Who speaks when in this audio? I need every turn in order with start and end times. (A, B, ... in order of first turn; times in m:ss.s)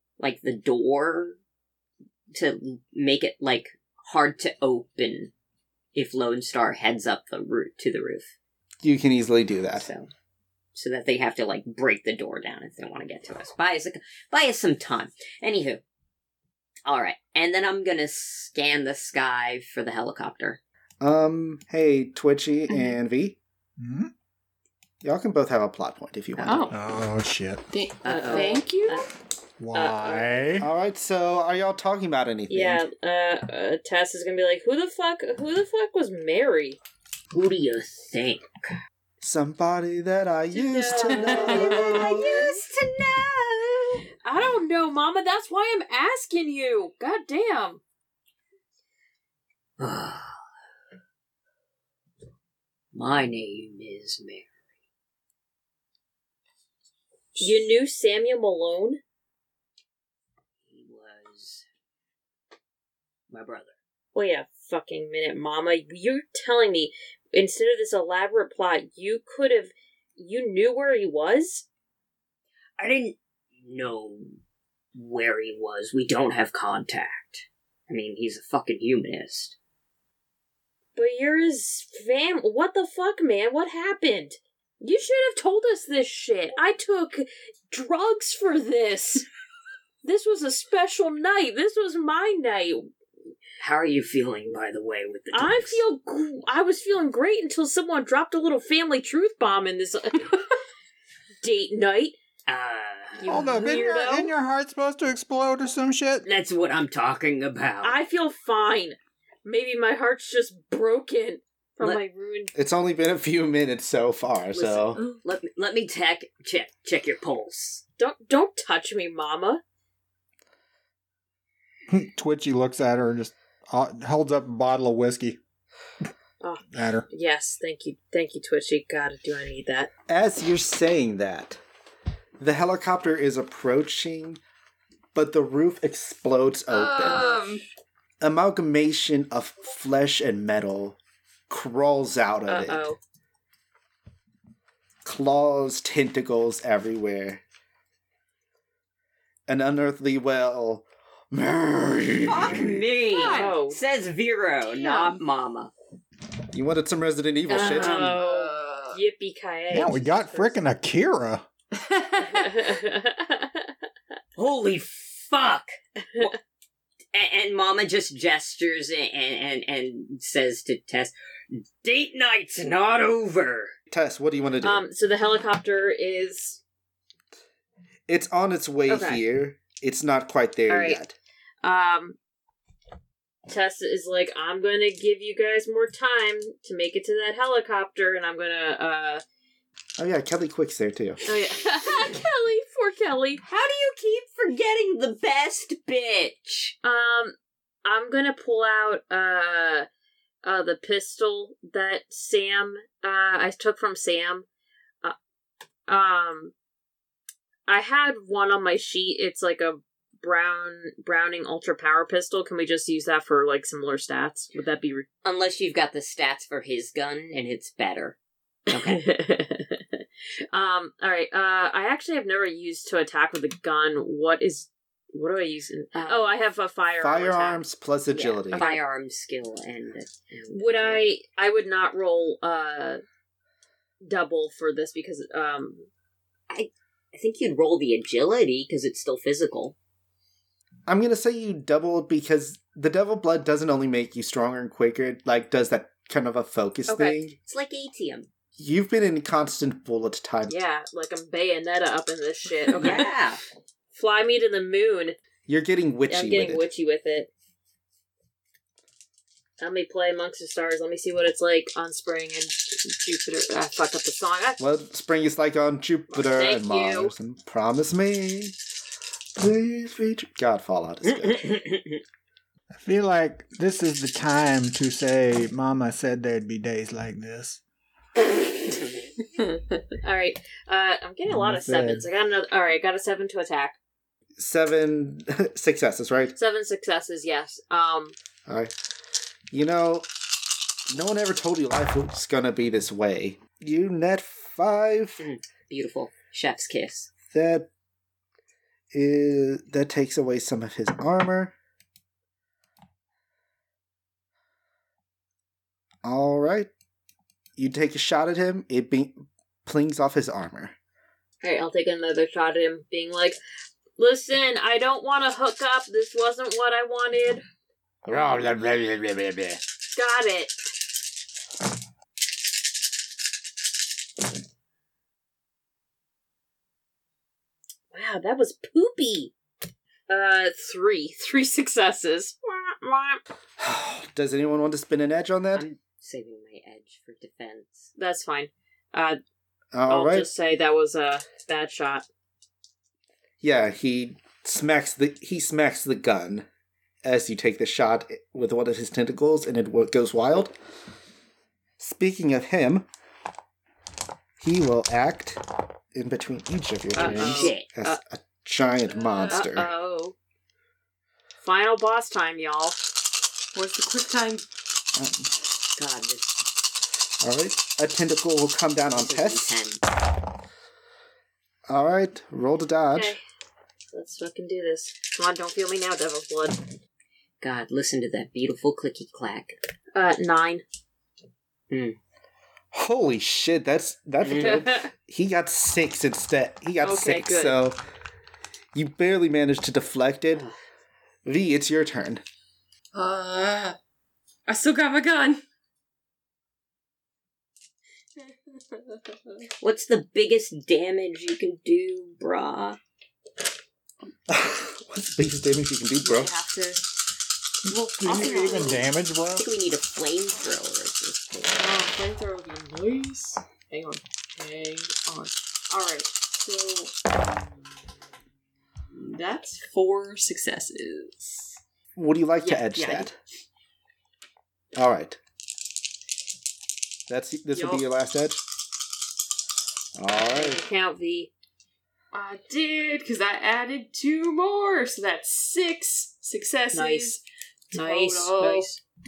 0:00.2-0:01.4 A
0:02.3-0:05.3 A
0:06.0-0:08.3 A
0:08.8-0:09.9 B
0:09.8-0:10.1 A
0:10.8-0:15.8 A
0:16.9-0:20.6 A
0:21.0-0:23.4 B
0:23.8-0:24.1 C
0:25.0-0:26.7 B
0:26.4-0:26.7 A
0:26.4-0:26.8 D
0:26.7-0:27.6 C
0:27.7-0:29.1 D
0:28.0-0:28.6 A
0:28.1-0:29.1 E
0:29.6-0:30.7 C
0:29.7-0:30.5 E
0:30.6-0:32.8 B
0:32.5-0:36.8 E
0:37.3-0:38.5 A
0:39.2-0:42.2 B
0:40.5-0:42.6 E
0:41.1-0:41.7 D
0:41.3-0:44.0 A
0:44.2-0:47.8 E
0:49.8-0:50.4 A
0:52.9-0:54.5 A
0:57.4-0:59.0 E
1:00.7-1:01.7 A
1:03.3-1:03.7 A
1:04.1-1:11.7 E
1:12.8-1:14.4 A
1:15.0-1:19.6 A
1:21.0-1:29.2 E
1:30.0-1:32.9 E
1:33.6-1:35.8 A
1:35.3-1:40.4 E
1:41.4-1:42.2 E
1:42.5-1:43.4 A
1:43.2-1:44.3 E
1:43.3-1:46.2 C
1:46.2-1:48.0 A
1:47.8-1:52.5 E
1:52.6-1:55.0 B
1:54.5-1:57.8 A
1:55.0-1:55.2 D
1:58.0-1:59.6 E
2:01.9-2:05.4 C
2:06.4-2:09.9 E
2:06.7-2:07.0 C
2:10.1-2:11.6 B
2:12.4-2:14.4 B
2:15.1-2:17.3 B
2:16.7-2:17.6 D
2:18.2-2:21.0 B
2:21.5-2:22.9 B
2:22.5-2:23.0 E
2:25.0-2:27.4 B
2:29.5-2:32.8 B
2:32.3-2:35.7 A
2:33.1-2:33.6 D
2:33.2-2:33.8 E
2:34.8-2:35.2 D
2:36.5-2:38.2 B
2:37.5-2:40.6 E
2:37.6-2:39.0 D
2:39.7-2:41.4 C
2:41.7-2:42.7 D
2:42.2-2:43.7 E
2:44.4-2:46.4 A
2:47.1-2:53.7 A
2:53.9-2:54.8 B
2:54.6-2:56.6 E
2:58.1-3:01.1 B
2:58.9-2:59.2 E
3:00.7-3:01.0 E
3:01.6-3:02.2 E
3:03.5-3:09.2 E
3:10.0-3:11.2 B
3:11.3-3:13.4 E
3:13.5-3:16.8 A
3:16.8-3:19.9 E
3:20.4-3:24.4 E
3:25.9-3:26.5 E
3:27.7-3:35.1 E
3:35.2-3:38.2 A
3:38.7-3:39.1 A
3:38.8-3:39.8 E
3:40.5-3:47.6 E
3:45.9-3:46.4 A
3:47.0-3:48.7 B
3:48.1-3:51.1 A
3:48.5-3:48.8 E
3:50.5-3:53.0 E
3:54.0-3:55.9 E
3:56.5-3:59.8 A
4:00.9-4:07.4 B
4:06.9-4:07.2 E
4:07.4-4:08.3 A
4:08.6-4:10.6 B
4:10.5-4:13.1 E
4:12.7-4:13.4 A
4:13.9-4:15.1 E
4:15.5-4:16.7 B
4:16.1-4:17.3 E
4:19.6-4:24.6 E
4:24.6-4:28.6 B
4:26.1-4:27.1 E
4:29.4-4:31.6 B
4:31.1-4:32.0 A
4:32.7-4:37.6 C
4:38.3-4:38.6 E
4:40.0-4:43.8 E
4:41.3-4:42.1 C
4:44.4-4:46.4 B
4:46.4-4:48.1 E
4:48.5-4:48.7 B
4:49.5-4:50.1 B
4:50.9-4:55.2 B
4:55.2-4:57.1 A
4:57.3-4:57.7 B
4:58.9-5:01.6 B
5:06.0-5:06.7 B
5:07.6-5:10.8 B
5:11.4-5:13.4 E
5:14.0-5:17.4 E
5:18.1-5:19.6 B
5:19.9-5:20.5 E
5:27.9-5:29.3 E
5:30.1-5:33.2 E
5:33.6-5:35.7 B
5:35.6-5:37.9 A
5:38.0-5:39.2 E
5:39.7-5:40.3 B
5:39.9-5:42.0 E
5:43.4-5:46.5 B
5:47.0-5:50.6 B
5:51.8-5:52.9 B
5:54.4-5:59.7 B
5:56.9-5:58.0 E
5:57.0-5:57.7 A
5:58.9-5:59.5 D
5:59.3-6:00.1 E
6:01.4-6:02.8 E
6:03.5-6:04.4 D
6:05.0-6:05.4 B
6:05.8-6:06.4 A
6:07.2-6:09.6 B
6:08.9-6:09.8 A
6:11.7-6:13.2 B
6:12.9-6:13.2 E
6:13.9-6:16.6 E
6:17.4-6:19.6 A
6:19.9-6:20.6 E
6:21.7-6:22.0 A
6:22.7-6:27.8 B
6:24.2-6:24.6 A
6:24.4-6:24.9 E
6:26.8-6:27.6 E
6:28.7-6:30.4 B
6:31.2-6:32.2 B
6:33.0-6:33.8 D
6:34.5-6:35.4 D
6:38.2-6:39.4 D
6:39.6-6:42.8 A
6:44.3-6:46.3 B
6:46.0-6:46.8 D
6:47.7-6:48.9 D
6:48.0-6:49.5 C
6:48.2-6:51.6 A
6:51.6-6:57.1 D
6:59.0-7:01.6 D
7:02.0-7:03.1 B
7:02.7-7:03.1 D
7:04.8-7:05.2 B
7:07.1-7:08.4 B
7:07.6-7:07.8 D
7:10.0-7:10.6 B
7:10.3-7:11.3 E
7:12.1-7:18.7 D
7:16.7-7:17.2 E
7:17.7-7:18.8 E